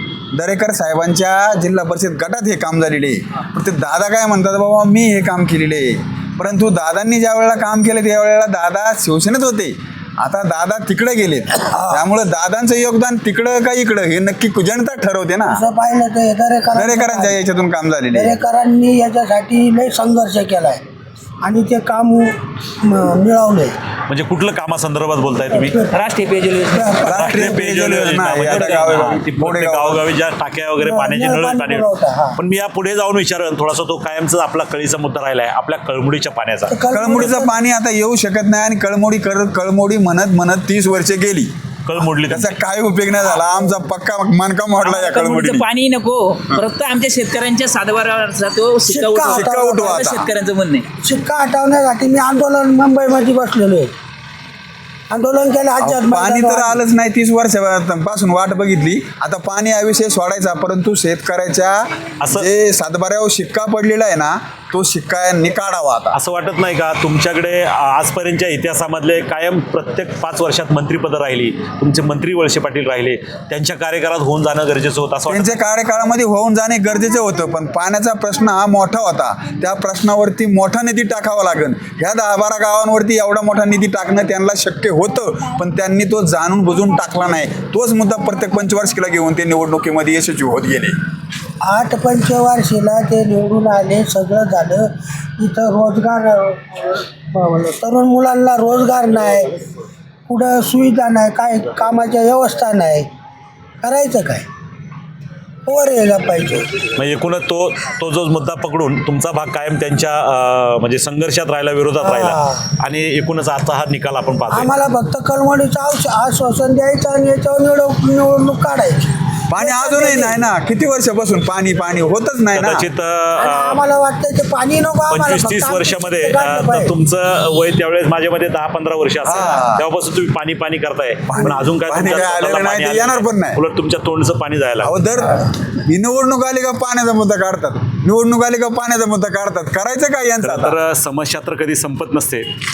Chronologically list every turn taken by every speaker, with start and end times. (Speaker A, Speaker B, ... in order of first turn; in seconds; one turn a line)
Speaker A: 0.3-15.6
Speaker B: 11.7-12.0
Speaker B: 15.5-17.4
Speaker A: 16.7-18.3
Speaker B: 18.1-20.8
Speaker B: 21.4-23.8
Speaker C: 24.1-25.8
Speaker B: 25.5-25.9
Speaker D: 25.9-27.4
Speaker B: 26.7-27.4
Speaker A: 27.0-30.0
Speaker C: 27.0-36.7
Speaker D: 28.4-28.9
Speaker B: 30.8-32.4
Speaker B: 36.7-37.5
Speaker A: 36.9-41.5
Speaker C: 41.8-42.5
Speaker A: 42.3-45.6
Speaker D: 44.8-50.9
Speaker B: 48.9-50.0
Speaker A: 49.3-50.3
Speaker B: 51.0-53.9
Speaker B: 55.1-56.8
Speaker A: 55.8-61.8
Speaker C: 62.2-62.5
Speaker A: 62.3-66.2
Speaker C: 66.1-75.6
Speaker A: 75.3-91.0
Speaker B: 91.6-99.6
Speaker B: 100.3-103.1
Speaker B: 103.8-104.5
Speaker B: 105.7-106.7
Speaker C: 107.0-114.7
Speaker B: 112.0-112.6
Speaker B: 114.5-120.4
Speaker A: 119.5-122.9
Speaker C: 122.5-123.8
Speaker B: 123.3-126.9
Speaker C: 125.0-135.0
Speaker A: 129.2-129.8
Speaker A: 131.3-133.6
Speaker A: 134.8-140.8
Speaker C: 140.4-142.5